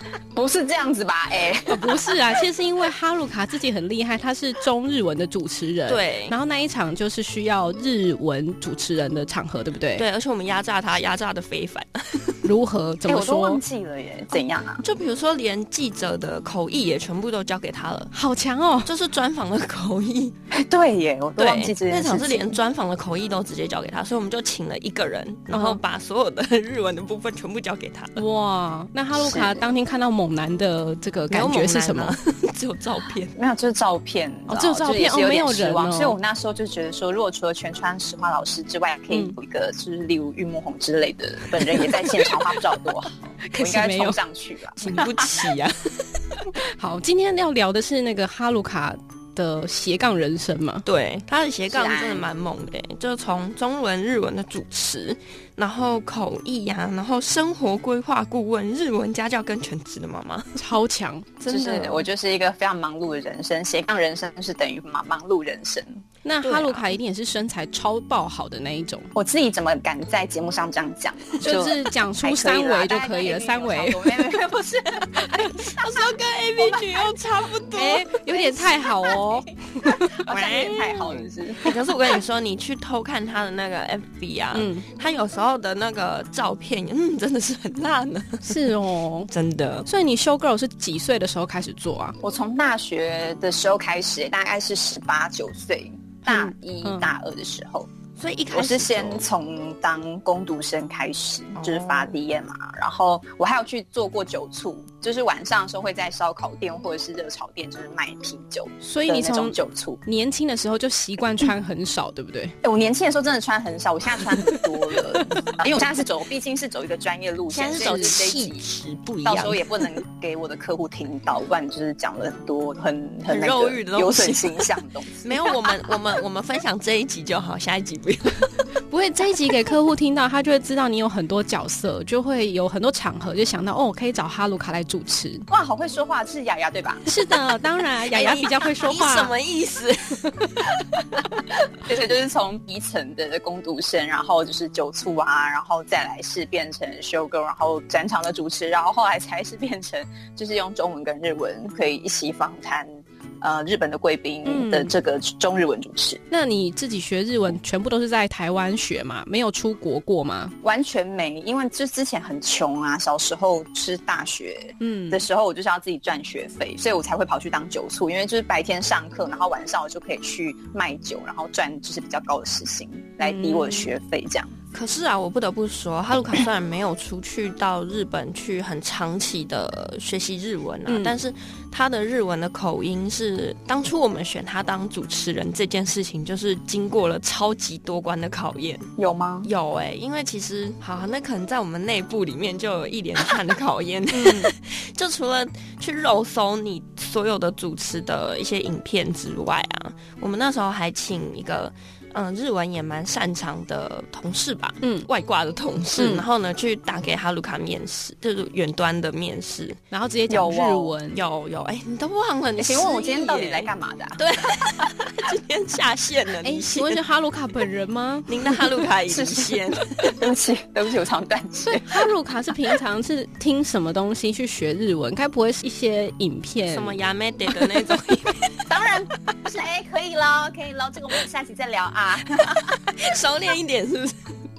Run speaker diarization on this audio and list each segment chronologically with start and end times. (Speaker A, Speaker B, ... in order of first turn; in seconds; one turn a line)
Speaker A: 0.3-2.1
Speaker B: 1.7-10.1
Speaker C: 5.9-6.4
Speaker C: 10.0-12.5
Speaker B: 12.4-13.6
Speaker A: 13.1-14.8
Speaker C: 14.3-18.1
Speaker B: 18.1-18.9
Speaker C: 18.9-20.3
Speaker A: 20.5-22.6
Speaker C: 21.4-28.2
Speaker B: 25.5-25.8
Speaker B: 28.2-32.2
Speaker A: 29.1-29.7
Speaker C: 31.3-33.4
Speaker A: 33.4-45.5
Speaker B: 34.5-36.2
Speaker B: 39.1-39.4
Speaker B: 41.7-42.4
Speaker B: 43.4-44.2
Speaker C: 44.8-46.2
Speaker B: 46.8-50.9
Speaker C: 50.9-60.6
Speaker A: 51.7-52.3
Speaker B: 60.6-61.3
Speaker C: 61.4-62.0
Speaker A: 61.5-66.0
Speaker B: 66.2-69.1
Speaker C: 66.4-66.9
Speaker A: 69.2-77.2
Speaker B: 71.4-74.3
Speaker B: 75.2-75.5
Speaker C: 75.7-78.1
Speaker B: 77.8-81.3
Speaker A: 78.3-81.7
Speaker C: 80.3-80.9
Speaker C: 81.6-88.7
Speaker B: 84.5-84.8
Speaker B: 88.5-89.3
Speaker C: 89.3-89.9
Speaker B: 89.9-92.2
Speaker A: 92.2-97.9
Speaker B: 96.3-97.1
Speaker C: 98.2-99.3
Speaker A: 98.5-110.0
Speaker C: 101.6-102.2
Speaker B: 108.8-112.5
Speaker A: 112.6-118.6
Speaker B: 114.2-115.5
Speaker C: 117.5-119.8
Speaker B: 117.7-118.2
Speaker A: 119.2-125.8
Speaker C: 123.3-124.7
Speaker C: 125.2-128.5
Speaker B: 128.9-135.5
Speaker A: 135.5-137.0
Speaker B: 137.1-139.3
Speaker C: 138.0-140.7
Speaker A: 141.8-152.9
Speaker A: 153.4-156.2
Speaker B: 154.5-154.9
Speaker B: 156.3-160.5
Speaker A: 160.6-174.5
Speaker B: 164.8-165.2
Speaker B: 173.2-173.9
Speaker C: 174.7-188.9
Speaker B: 180.9-181.2
Speaker A: 189.0-189.5
Speaker C: 189.4-209.8
Speaker B: 194.1-194.5
Speaker B: 204.8-205.1
Speaker B: 206.0-206.3
Speaker B: 209.9-211.2
Speaker A: 210.3-210.9
Speaker C: 211.1-217.0
Speaker A: 212.6-214.9
Speaker B: 216.4-218.6
Speaker C: 218.3-220.2
Speaker A: 219.1-222.1
Speaker B: 221.7-226.9
Speaker C: 226.7-228.6
Speaker A: 228.7-232.9
Speaker C: 232.8-234.3